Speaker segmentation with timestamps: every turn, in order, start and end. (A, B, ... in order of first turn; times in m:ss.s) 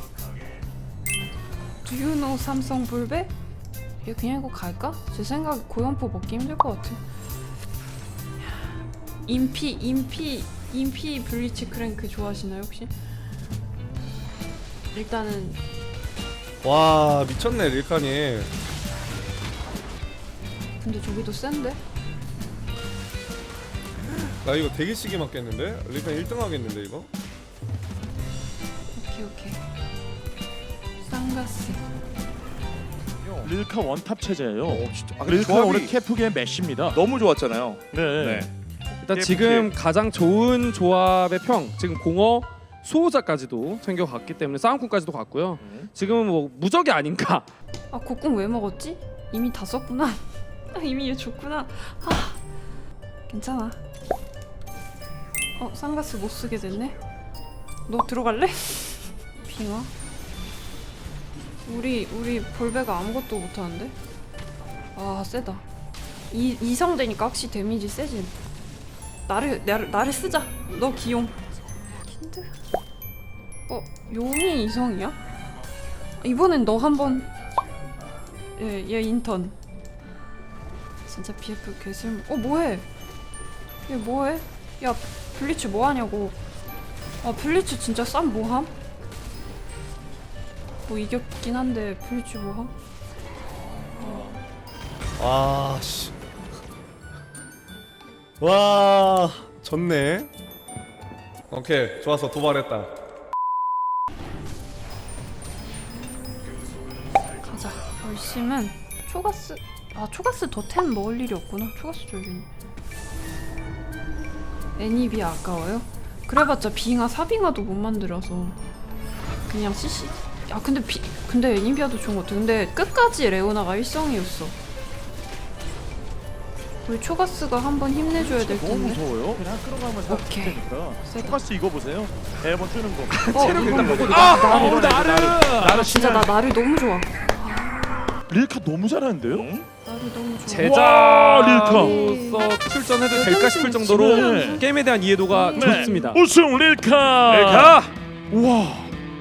0:01.8-0:03.3 A
0:04.0-0:07.0 A
0:08.4-0:12.9 A
0:14.9-0:15.6 A
0:16.6-0:18.5 B
0:20.8-0:21.8 A
0:24.1-0:27.1 B
0:28.9-0:29.6 A
0:31.0-0:31.8 A
0:33.2-0:33.5 C
0:33.4-0:37.0 D
0:34.7-0:35.9 C
0:36.9-0:39.7 C
0:37.9-0:38.5 D
0:39.0-0:47.5 E
0:45.6-0:45.9 C
0:47.9-0:52.4 A
0:53.3-0:53.8 A
0:55.6-0:57.0 A
0:57.9-0:59.9 A
1:01.6-1:04.0 A
1:05.0-1:05.6 A
1:06.3-1:08.4 A
1:09.3-1:11.4 A
1:12.0-1:12.5 A
1:13.7-1:15.2 A
1:16.2-1:17.3 A
1:18.6-1:19.6 A
1:21.0-1:22.9 A
1:23.9-1:26.4 A
1:27.2-1:28.7 A
1:30.9-1:32.7 A
1:34.0-1:34.4 A
1:35.2-1:36.2 B
1:38.4-1:40.3 B
1:41.5-1:42.9 B
1:47.4-1:52.5 A
1:54.8-1:58.6 A
1:59.5-2:04.6 A
2:06.8-2:09.1 A
2:08.2-2:16.3 D
2:10.1-2:11.4 A
2:13.1-2:15.8 E
2:13.3-2:14.9 A
2:13.4-2:14.5 C
2:15.6-2:18.1 A
2:18.3-2:19.5 D
2:19.3-2:19.7 C
2:19.8-2:20.8 A
2:20.5-2:26.2 E
2:20.6-2:22.0 D
2:21.7-2:22.5 A
2:23.1-2:24.6 A
2:23.6-2:24.6 D
2:25.3-2:26.2 A
2:25.6-2:27.8 D
2:27.2-2:27.9 C
2:28.3-2:29.0 D